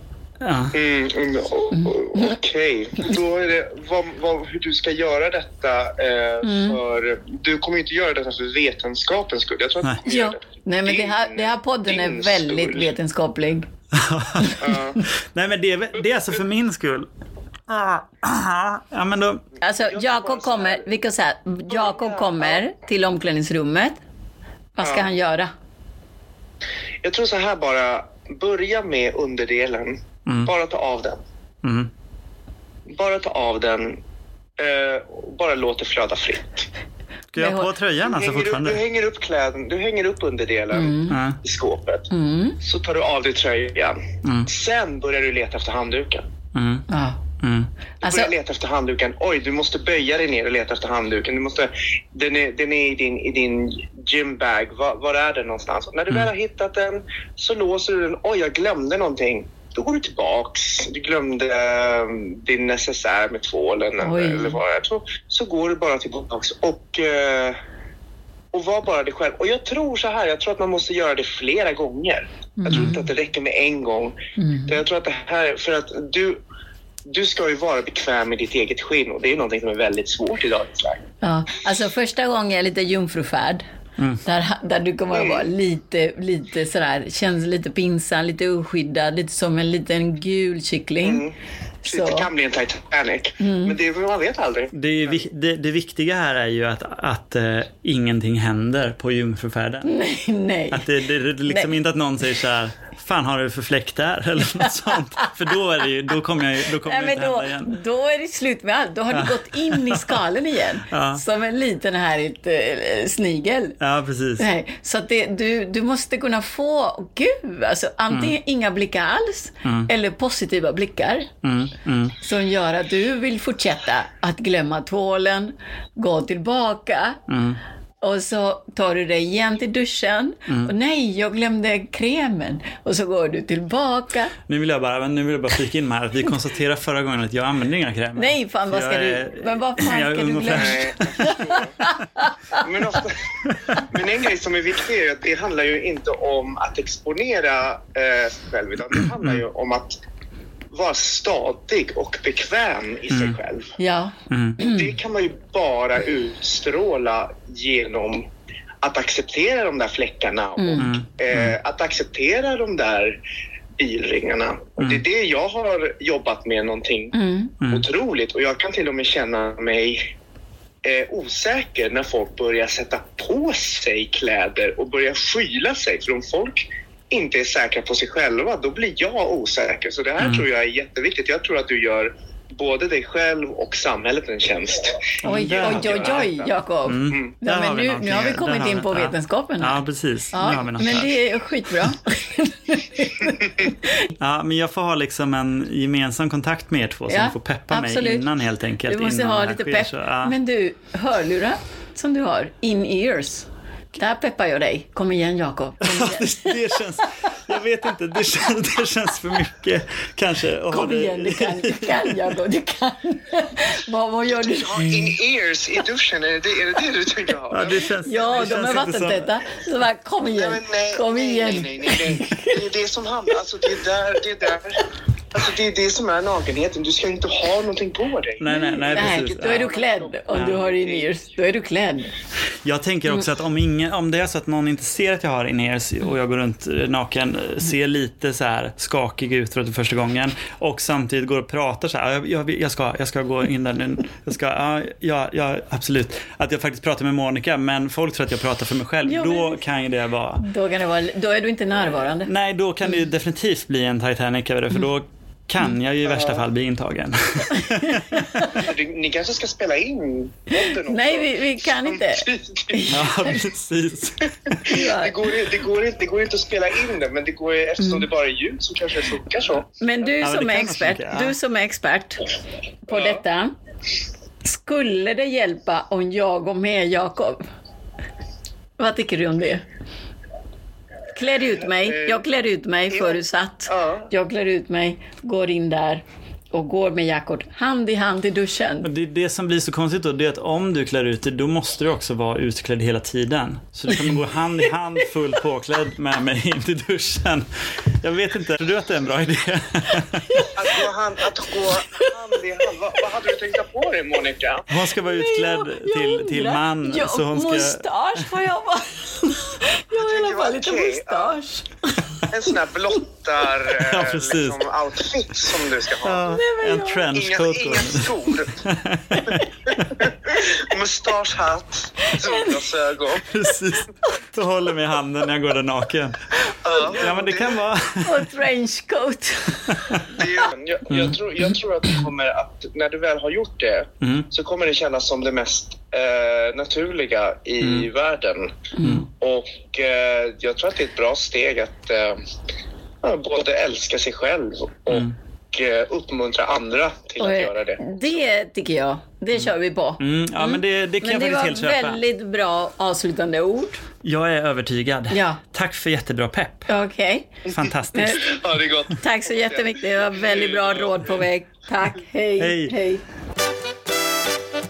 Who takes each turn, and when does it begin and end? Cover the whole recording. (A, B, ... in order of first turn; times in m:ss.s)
0:00.4-0:00.7 A
0:00.7-0:12.9 B
0:01.7-0:02.3 C
0:06.4-0:06.8 C
0:10.0-0:13.7 C
0:13.9-0:17.1 A
0:14.4-0:14.8 C
0:14.6-0:15.0 B
0:17.7-0:19.4 A
0:19.6-0:24.0 C
0:19.9-0:20.8 B
0:21.7-0:22.6 B
0:24.8-0:25.5 C
0:24.8-0:25.1 B
0:27.0-0:31.2 B
0:30.2-0:30.5 A
0:31.6-0:31.9 A
0:32.9-0:34.0 B
0:34.6-0:36.7 B
0:37.3-0:38.8 A
0:37.4-0:37.7 C
0:38.0-0:42.1 B
0:40.7-0:41.2 C
0:41.1-0:41.4 A
0:42.1-0:42.6 C
0:42.6-0:46.2 B
0:44.2-0:44.5 A
0:46.5-0:46.8 A
0:46.9-0:47.2 C
0:47.4-0:47.7 A
0:48.0-0:48.3 C
0:48.0-1:07.6 B
1:04.0-1:04.6 C
1:08.5-1:14.2 B
1:12.6-1:13.0 C
1:14.4-1:14.8 C
1:14.7-1:16.4 B
1:17.0-1:21.0 B
1:21.2-1:23.6 C
1:24.2-1:31.2 C
1:25.1-1:25.4 B
1:31.0-1:31.3 B
1:31.8-1:32.3 C
1:31.8-1:35.2 B
1:33.4-1:33.8 C
1:34.7-1:39.9 A
1:39.8-1:41.7 C
1:40.7-1:47.8 A
1:44.4-1:45.3 C
1:46.7-1:53.8 C
1:49.1-1:50.2 A
1:50.9-1:51.2 A
1:53.8-1:54.4 A
1:54.4-2:01.3 C
1:58.1-1:58.3 A
1:59.6-1:59.9 A
2:01.4-2:02.1 A
2:02.2-2:07.2 C
2:07.3-2:07.6 A
2:08.0-2:14.3 C
2:10.5-2:10.7 A
2:14.4-2:21.4 A
2:18.2-2:22.6 C
2:20.5-2:21.7 B
2:22.6-2:23.2 B
2:23.8-2:30.0 B
2:30.7-2:33.7 B
2:33.1-2:33.4 A
2:33.8-2:34.9 C
2:34.3-2:34.6 A
2:34.6-2:38.2 B
2:38.8-2:43.2 B
2:40.6-2:40.9 C
2:40.8-2:41.6 A
2:43.8-2:47.1 B
2:47.1-2:47.5 C
2:47.6-2:50.1 B
2:50.8-3:06.5 B
3:00.2-3:00.4 A
3:05.2-3:06.2 A
3:05.2-3:14.0 C
3:06.8-3:11.2 A
3:14.1-3:20.4 A
3:17.1-3:18.3 C
3:18.9-3:27.3 C
3:25.8-3:32.3 A
3:30.7-3:35.1 C
3:34.3-3:37.9 B
3:37.5-3:39.3 A
3:38.0-3:42.6 C
3:40.3-3:44.8 B
3:45.3-3:51.2 B
3:48.4-3:49.7 A
3:48.4-3:52.1 C
3:50.3-3:50.6 A
3:52.6-4:10.4 A
4:09.0-4:09.6 C
4:10.4-4:12.3 C
4:12.2-4:18.5 A
4:16.1-4:16.4 B
4:17.6-4:18.7 C
4:18.5-4:23.0 B
4:20.5-4:23.4 C
4:22.9-4:24.6 A
4:24.6-4:25.2 C
4:24.6-4:29.7 B
4:27.8-4:28.0 C
4:29.8-4:32.2 C
4:30.2-4:31.3 A
4:32.9-4:33.5 C
4:34.4-4:37.4 C
4:38.8-4:39.6 C
4:41.1-4:48.9 C
4:41.8-4:42.2 B
4:42.9-4:44.1 B
4:48.8-5:00.4 A
5:00.5-5:04.7 B
5:01.7-5:02.6 C
5:04.7-5:08.3 A
5:04.9-5:12.3 C
5:09.9-5:11.4 B
5:12.3-5:16.3 B
5:13.7-5:14.7 A
5:16.0-5:19.5 A
5:16.2-5:17.1 C
5:17.1-5:18.6 B
5:19.1-5:20.0 C
5:19.9-5:23.3 B
5:22.0-5:22.7 C
5:23.2-5:26.3 A
5:26.6-5:27.6 B
5:26.8-5:28.3 A
5:28.0-5:30.1 C
5:30.1-5:42.2 B
5:30.9-5:31.2 A
5:34.0-5:34.3 A
5:37.6-5:37.9 A
5:38.8-5:39.0 C
5:43.0-5:48.1 B
5:47.2-5:53.8 C
5:49.4-5:52.0 A
5:54.0-5:56.7 A
5:55.1-5:55.4 C
5:56.7-5:58.4 C
5:57.5-5:58.2 A
5:58.2-6:01.2 B
5:58.9-6:03.0 C
6:02.4-6:02.7 A